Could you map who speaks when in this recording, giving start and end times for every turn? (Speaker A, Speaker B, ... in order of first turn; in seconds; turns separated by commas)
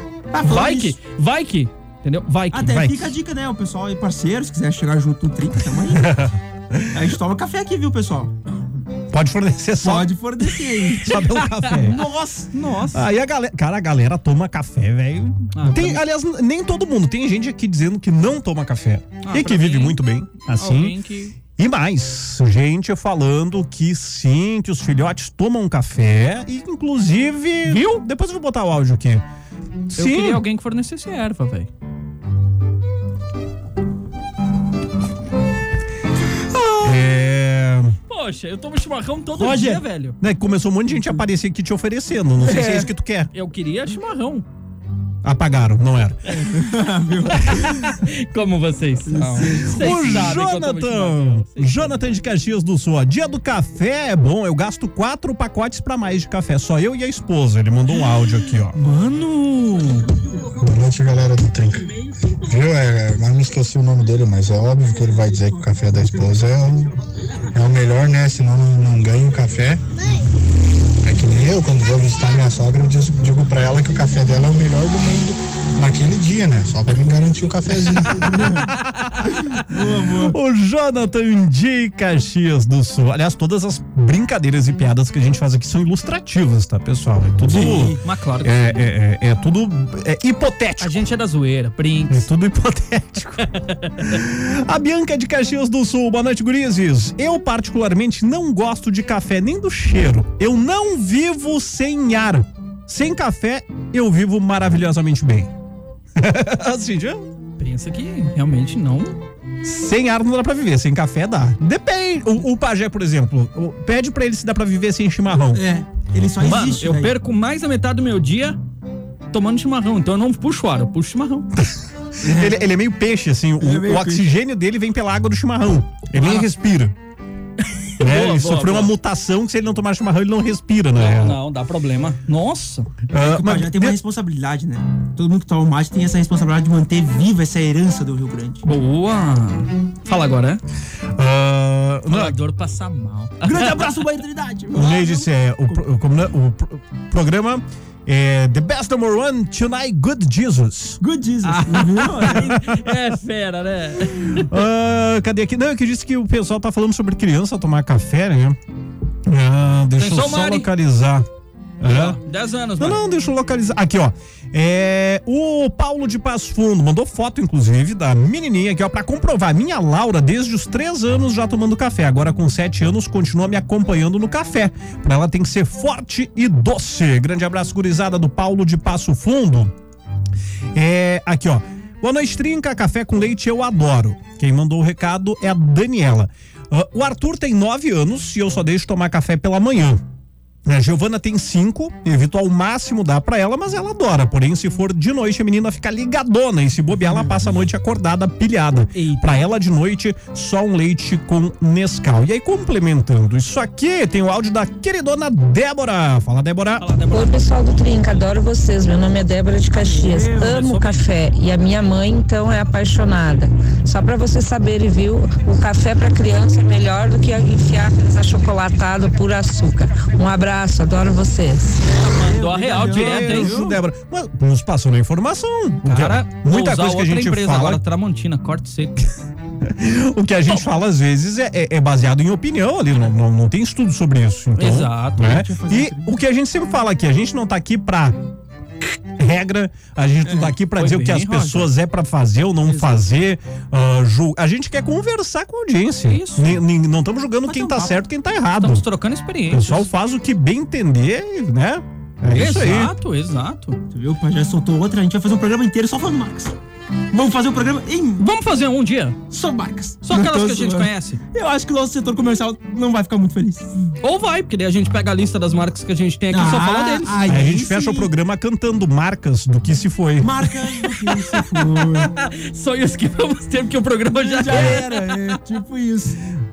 Speaker A: 0.3-1.0, Speaker B: 0.4-2.8, Speaker A: 2.5-6.2, Speaker C: 2.7-3.1, Speaker C: 6.0-6.9, Speaker A: 6.9-8.3, Speaker C: 9.1-12.0, Speaker A: 9.8-11.2, Speaker B: 11.1-13.0, Speaker A: 11.8-12.4, Speaker C: 12.9-29.2, Speaker B: 15.5-16.0, Speaker B: 19.2-20.0, Speaker B: 20.5-21.3, Speaker B: 27.6-28.0, Speaker C: 29.9-30.4, Speaker B: 29.9-31.7, Speaker C: 36.8-38.0, Speaker B: 38.1-40.2, Speaker A: 39.4-39.8, Speaker C: 39.4-43.3, Speaker B: 42.5-42.8, Speaker A: 42.5-42.8, Speaker B: 43.3-44.5, Speaker C: 45.2-46.2, Speaker A: 46.3-47.9, Speaker B: 47.4-52.2, Speaker A: 49.1-50.3, Speaker C: 49.7-58.8, Speaker B: 58.7-60.0, Speaker D: 60.6-61.9, Speaker D: 62.5-66.9, Speaker D: 67.5-69.8, Speaker D: 71.0-78.5, Speaker A: 78.3-78.7, Speaker A: 79.5-80.3, Speaker C: 80.2-91.0, Speaker A: 87.5-88.0, Speaker B: 88.0-88.8, Speaker B: 90.8-92.3, Speaker C: 92.1-93.5, Speaker B: 93.6-94.2, Speaker C: 94.0-105.5, Speaker C: 106.2-107.3, Speaker B: 107.6-109.2, Speaker C: 109.6-115.6, Speaker A: 115.5-117.1, Speaker B: 116.4-118.6, Speaker B: 119.3-121.5, Speaker C: 121.6-126.9, Speaker A: 122.2-122.6, Speaker A: 123.6-124.3, Speaker B: 127.7-128.9, Speaker C: 128.0-131.4, Speaker B: 130.9-132.9, Speaker C: 133.1-134.0, Speaker A: 133.2-138.6, Speaker B: 138.6-140.6, Speaker C: 141.2-142.4, Speaker B: 142.1-143.8, Speaker A: 143.4-145.8, Speaker C: 144.7-151.0, Speaker A: 151.0-152.5, Speaker B: 151.4-154.5, Speaker C: 154.5-158.6, Speaker C: 159.2-161.3, Speaker B: 160.0-160.7, Speaker C: 161.8-162.2, Speaker B: 161.9-163.0, Speaker C: 162.8-179.7, Speaker C: 180.7-190.0, Speaker C: 190.6-206.8, Speaker A: 197.1-197.4, Speaker B: 198.9-199.4, Speaker B: 206.8-207.4, Speaker E: 207.1-221.9, Speaker A: 209.7-210.8, Speaker B: 210.5-211.0, Speaker A: 222.0-223.8, Speaker B: 222.0-223.6, Speaker C: 222.8-227.8, Speaker B: 225.8-229.1, Speaker C: 229.6-238.2, Speaker B: 234.6-235.4, Speaker A: 235.2-236.1, Speaker C: 238.8-248.8, Speaker B: 240.7-241.7, Speaker A: 242.7-243.0, Speaker B: 246.1-246.6, Speaker A: 247.4-248.0, Speaker B: 248.6-249.9, Speaker C: 249.5-252.9, Speaker B: 252.3-253.8, Speaker A: 253.9-256.5, Speaker A: 257.1-258.2, Speaker B: 258.2-259.2, Speaker A: 259.3-263.9, Speaker B: 260.0-261.2, Speaker B: 264.0-267.4, Speaker A: 266.3-268.1, Speaker C: 267.3-270.3, Speaker A: 270.2-272.1, Speaker B: 271.0-275.1, Speaker A: 274.2-276.2